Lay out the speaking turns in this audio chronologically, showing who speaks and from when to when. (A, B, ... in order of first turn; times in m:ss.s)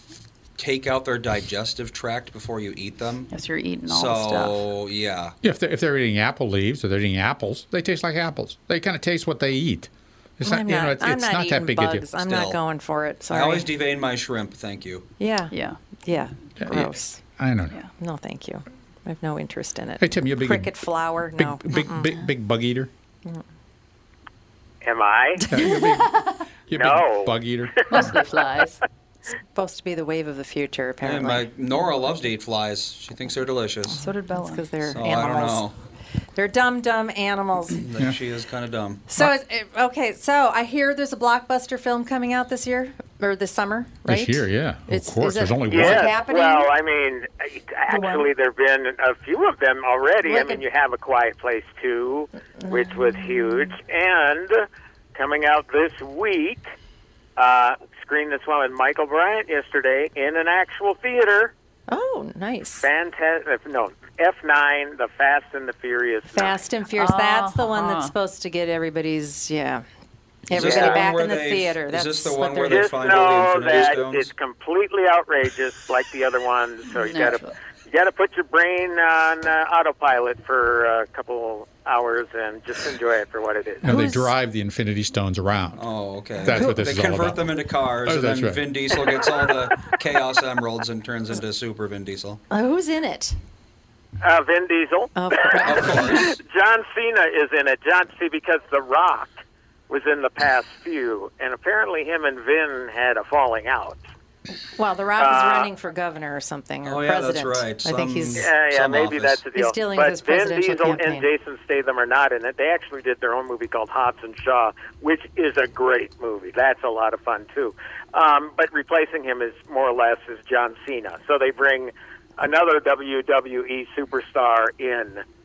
0:00.6-0:03.3 A
0:03.3-0:04.6 B
0:03.9-0:05.4 A
0:05.4-0:12.1 C
0:10.4-0:13.7 D
0:12.2-0:12.6 A
0:13.3-0:15.1 A
0:15.2-0:17.2 D
0:15.5-0:15.8 B
0:16.6-0:17.8 C
0:18.0-0:22.2 D
0:20.0-0:20.7 C
0:21.4-0:22.9 C
0:24.8-0:25.4 E
0:25.5-0:26.1 C
0:25.5-0:26.4 B
0:26.7-0:28.1 C
0:26.7-0:27.3 E
0:27.8-0:28.8 B
0:29.5-0:31.5 D
0:31.0-0:34.1 A
0:33.9-0:34.7 B
0:34.3-0:35.7 D
0:34.9-0:35.7 A
0:36.3-0:37.8 D
0:37.8-0:39.1 A
0:39.1-0:46.7 D
0:44.0-0:46.1 C
0:45.7-0:56.6 E
0:50.2-0:50.6 D
0:52.6-0:53.7 D
0:57.4-1:01.5 E
1:01.9-1:02.9 D
1:02.8-1:06.6 E
1:06.3-1:09.8 D
1:07.0-1:08.1 B
1:10.5-1:12.9 D
1:10.5-1:14.3 A
1:10.6-1:11.0 E
1:12.7-1:23.9 E
1:16.9-1:17.5 B
1:23.8-1:25.8 C
1:23.8-1:24.3 D
1:25.8-1:32.4 A
1:26.4-1:28.8 C
1:32.5-1:33.4 D
1:34.2-1:44.0 E
1:35.1-1:36.2 D
1:35.6-1:36.4 A
1:44.8-1:48.5 D
1:45.2-1:45.7 E
1:46.8-1:49.4 A
1:48.4-2:05.2 E
1:49.5-1:51.3 D